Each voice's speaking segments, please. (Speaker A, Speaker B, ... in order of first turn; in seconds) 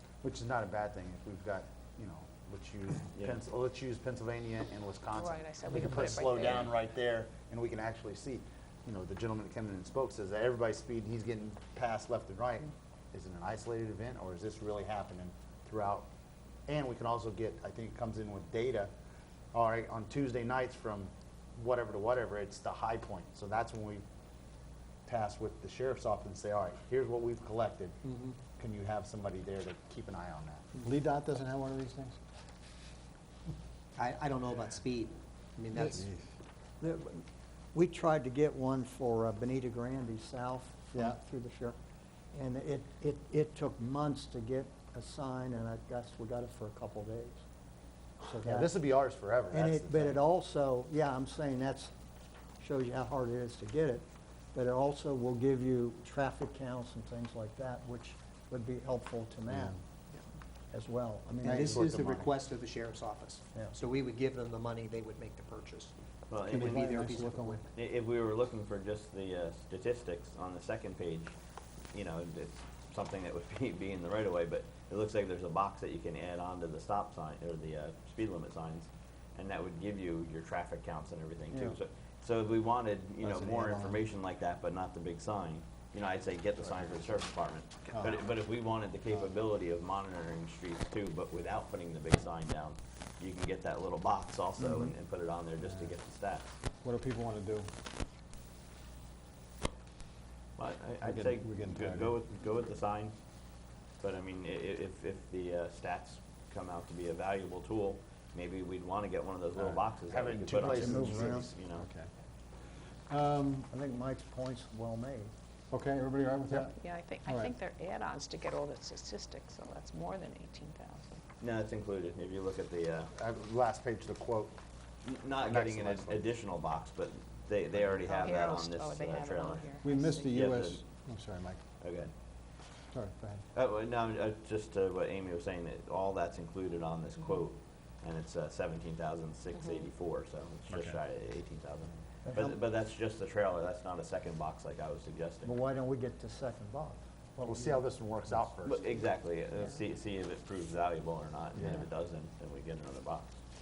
Speaker A: 0.2-16.1, 16.7-18.9, 19.5-24.0, 25.1-30.7, 48.4-50.2, 61.4-62.3, 110.1-111.5, 123.1-124.5, 125.3-126.3, 147.4-149.0
Speaker B: 3.1-3.4, 66.3-67.0, 67.7-71.3, 71.9-96.5, 100.6-103.1, 104.0-111.9, 121.4-123.1, 125.0-129.7, 130.3-130.8, 131.8-132.1, 133.5-145.5, 148.6-153.3
Speaker C: 5.1-6.8, 116.7-121.2, 128.0-130.4
Speaker D: 28.1-28.4, 34.0-36.1, 61.4-66.0, 66.5-67.7
Speaker E: 30.8-32.2, 35.8-36.2, 40.9-41.2, 59.5-59.8, 66.5-67.6, 83.6-83.9, 87.9-88.2, 95.6-95.9, 96.8-97.7, 101.0-102.2, 111.7-112.1, 113.1-113.7, 115.7-117.5, 129.8-131.6, 132.9-133.4, 140.7-140.9
Speaker F: 36.8-41.8, 42.3-47.4, 48.2-48.8, 49.5-51.9, 52.6-59.8, 60.7-61.9, 110.5-111.5, 113.7-115.3, 142.2-142.6, 145.4-147.8